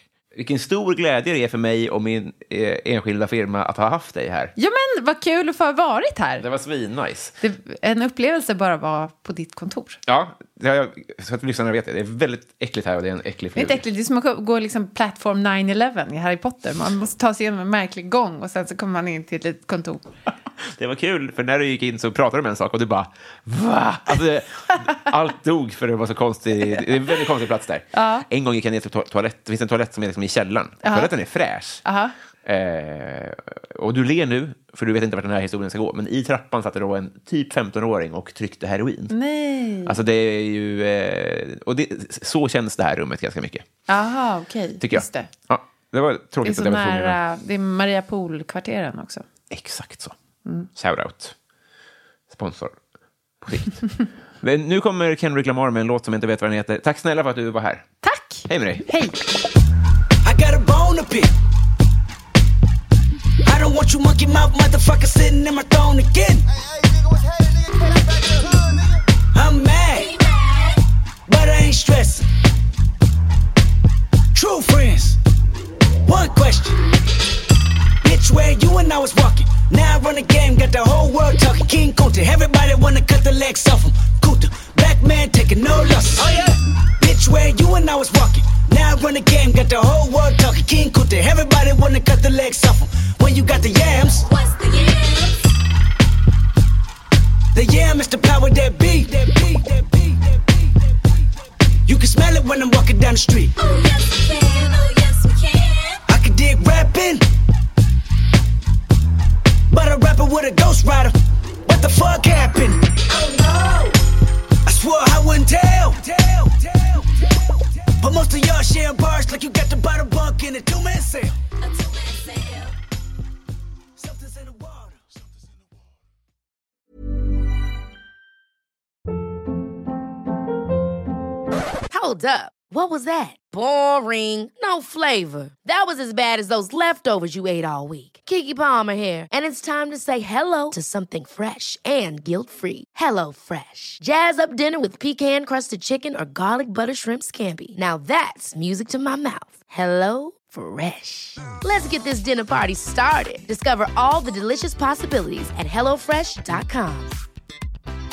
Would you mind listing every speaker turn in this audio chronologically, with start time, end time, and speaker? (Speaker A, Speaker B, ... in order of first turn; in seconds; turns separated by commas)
Speaker A: 0.3-4.5, Speaker B: 4.6-6.4, Speaker A: 6.4-7.3, Speaker B: 7.4-10.0, Speaker A: 10.1-13.8, Speaker B: 13.6-20.1, Speaker A: 20.8-31.8, Speaker B: 27.9-28.3, Speaker B: 30.8-31.1, Speaker B: 31.8-32.1, Speaker A: 32.5-39.1, Speaker B: 39.1-40.0, Speaker A: 39.9-43.6, Speaker B: 43.9-45.3, Speaker A: 44.8-47.2, Speaker B: 46.4-49.3, Speaker A: 49.5-50.1, Speaker A: 50.8-51.4, Speaker A: 52.3-52.8, Speaker A: 53.4-57.9, Speaker B: 58.0-59.2, Speaker A: 58.5-58.9, Speaker C: 60.2-61.3, Speaker C: 63.4-66.5, Speaker C: 69.3-70.1, Speaker D: 70.0-70.8, Speaker C: 71.3-72.3, Speaker C: 74.3-75.2, Speaker C: 76.0-76.8, Speaker C: 78.0-94.3, Speaker D: 94.2-95.4, Speaker C: 97.5-100.9, Speaker C: 101.9-103.5, Speaker D: 103.6-106.0, Speaker C: 106.1-107.2, Speaker C: 109.7-111.1, Speaker C: 111.7-112.9, Speaker D: 113.0-114.0, Speaker C: 114.7-121.4, Speaker D: 121.6-122.7, Speaker C: 124.0-125.0, Speaker E: 131.9-157.2